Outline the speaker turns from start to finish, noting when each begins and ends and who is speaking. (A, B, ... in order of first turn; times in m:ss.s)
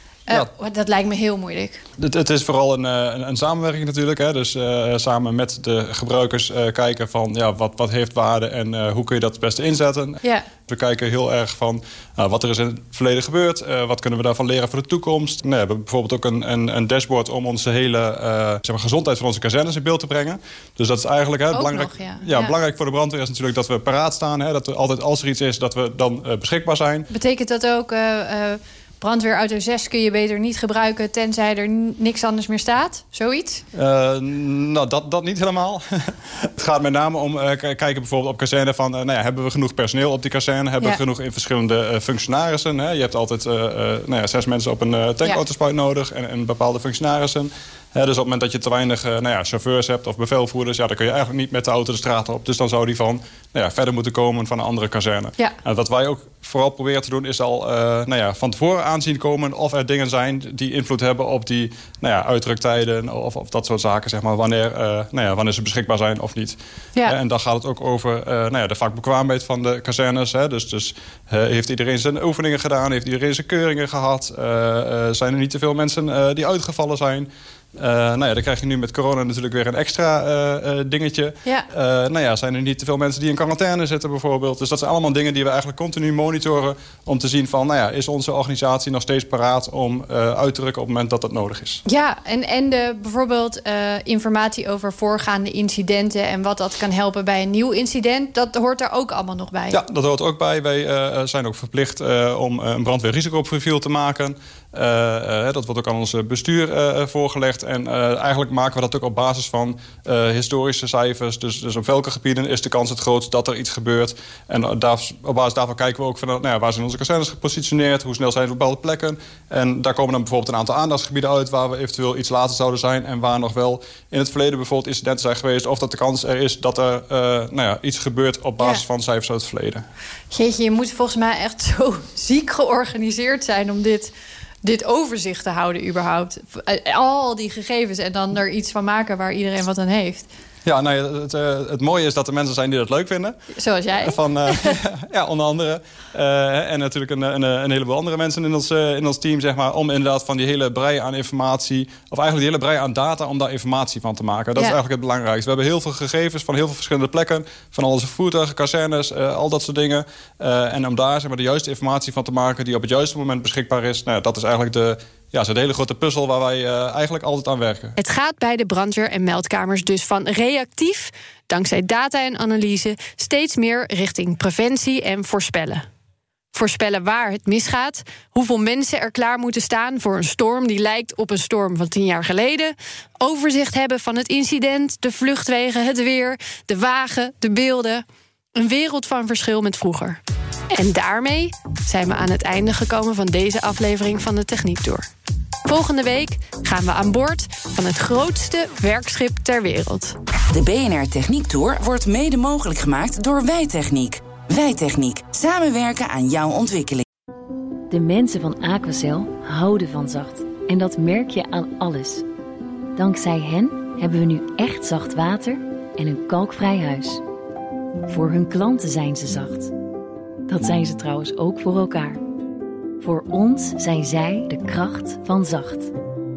0:00.3-0:01.8 A
0:02.0-0:27.1 B
0:21.5-0:22.5 A
0:27.1-0:33.6 A
0:33.7-1:31.8 B
1:31.8-1:39.8 A
1:39.7-2:09.8 B
2:10.3-2:20.3 A
2:20.6-2:23.3 B
2:23.6-2:24.8 A
2:24.0-2:48.0 B
2:48.0-2:55.8 A
2:56.5-3:08.0 A
3:08.6-3:10.2 A
3:10.7-3:15.0 A
3:15.6-3:20.2 A
3:20.5-3:27.0 C
3:27.9-3:32.2 D
3:33.0-3:37.2 D
3:38.1-3:39.7 D
3:40.5-3:42.2 D
3:43.0-3:45.9 D